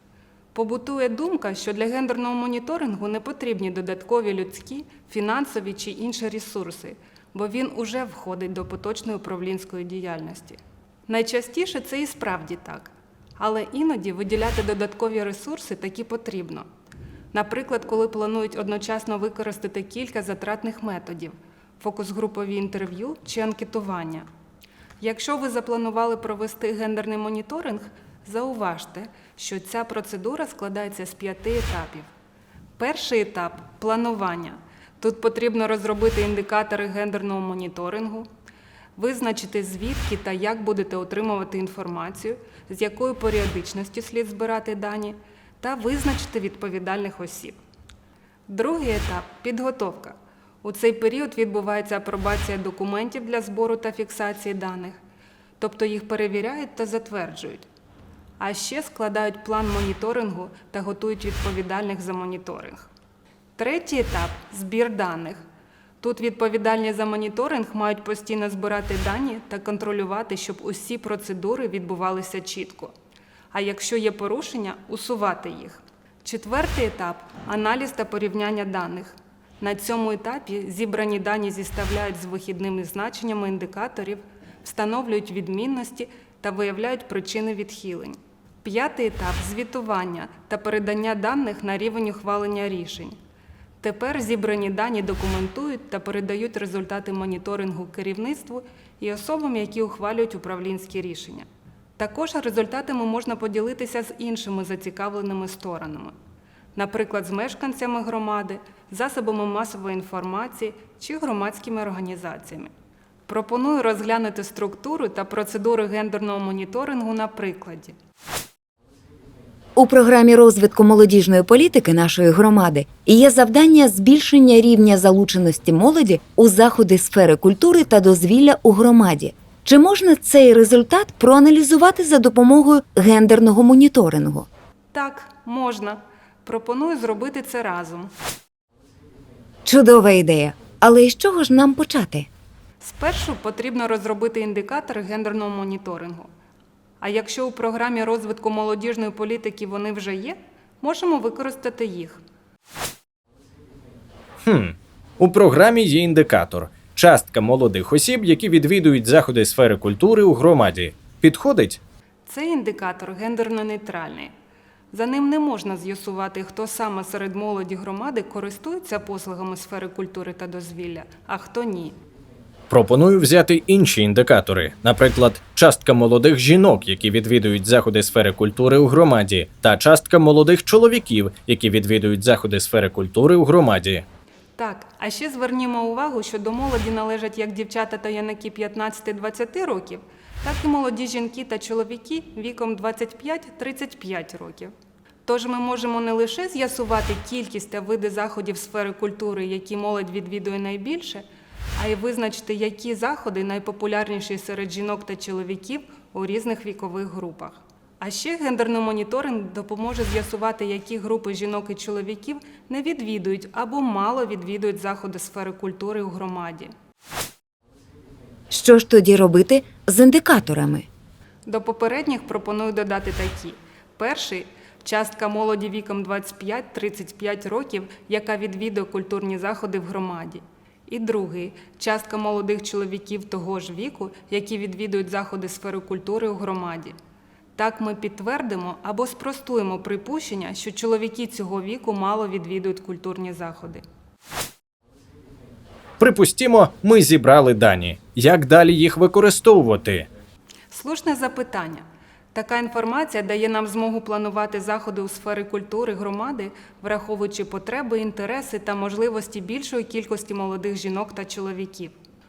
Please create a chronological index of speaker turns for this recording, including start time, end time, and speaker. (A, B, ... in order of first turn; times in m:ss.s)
0:00.5-0:16.7 A
0:17.3-0:24.3 A
0:25.0-0:32.1 A
0:32.8-0:38.3 A
0:39.0-0:47.6 A
0:48.5-0:55.0 A
0:55.6-0:57.7 A
0:58.4-1:02.9 A
1:03.6-1:05.4 A
1:06.0-1:12.9 A
1:13.5-1:33.2 A
1:33.8-1:41.5 A
1:42.0-1:46.2 A
1:46.8-1:52.7 A
1:53.3-1:58.0 A
1:59.8-2:14.5 B
2:14.9-2:18.1 A
2:19.6-2:22.3 B
2:22.8-2:26.3 A
2:27.0-2:32.2 A
2:34.4-2:41.8 C
2:42.3-2:44.3 A
2:44.9-2:52.0 A
2:52.7-3:04.0 C
3:04.6-3:14.7 A
3:15.2-3:21.2 A
3:21.8-3:36.7 A
3:38.5-3:40.9 B
3:41.5-3:57.0 A
3:57.6-4:03.8 A
4:06.0-4:10.1 C
4:10.7-4:22.0 A